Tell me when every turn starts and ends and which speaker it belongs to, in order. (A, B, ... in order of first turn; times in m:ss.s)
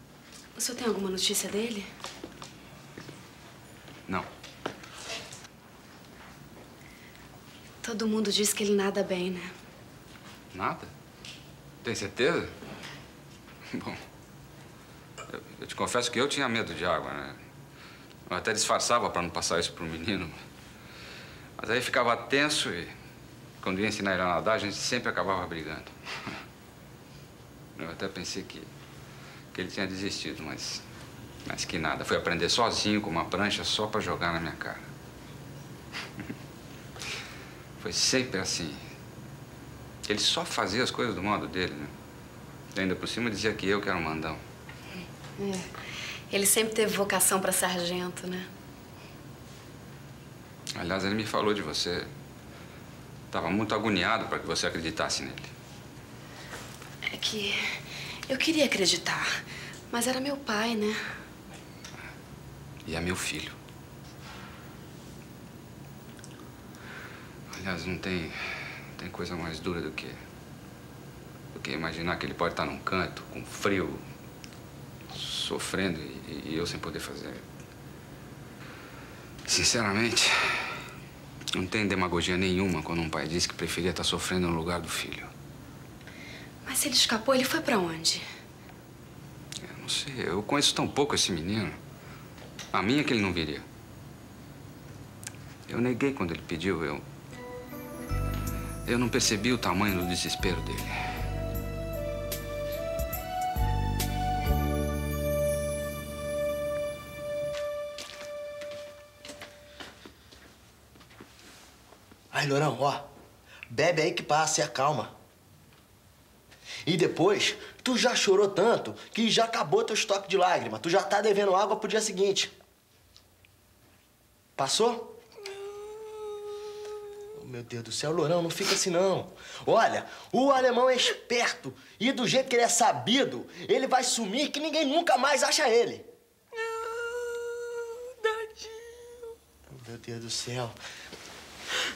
0:00.6-0:01.9 A
0:07.8-0:09.5 A
0:10.5-0:10.9 B
0:11.8-0:12.5 B
0:13.7-0:14.0 B
0:15.3-0:17.4 B
0:18.3-0:20.3 B
0:21.6-0:22.9 B
0:23.6-0:26.4 B
0:27.8-0:28.7 B
0:29.5-0:30.8 B
0:31.4-0:34.9 B
0:37.8-0:38.8 B
0:40.0-0:41.9 B
0:42.7-0:44.4 B
0:45.4-0:45.7 A
0:46.3-0:48.5 A
0:50.7-0:52.1 B
0:53.3-0:55.5 B
0:57.1-0:59.3 A
0:59.9-1:01.0 A
1:02.8-1:03.6 B
1:07.5-1:08.4 B
1:09.0-1:10.2 B
1:11.5-1:14.0 B
1:15.1-1:17.4 B
1:19.4-1:20.7 B
1:21.5-1:25.3 B
1:26.6-1:28.2 A
1:29.7-1:31.8 B
1:32.7-1:33.6 B
1:35.7-1:37.0 B
1:38.8-1:41.0 B
1:52.3-1:53.1 C
1:53.7-1:55.1 C
1:56.8-2:02.5 C
2:04.6-2:05.2 C
2:07.3-2:16.1 C
2:16.9-2:19.3 D
2:19.7-2:20.8 C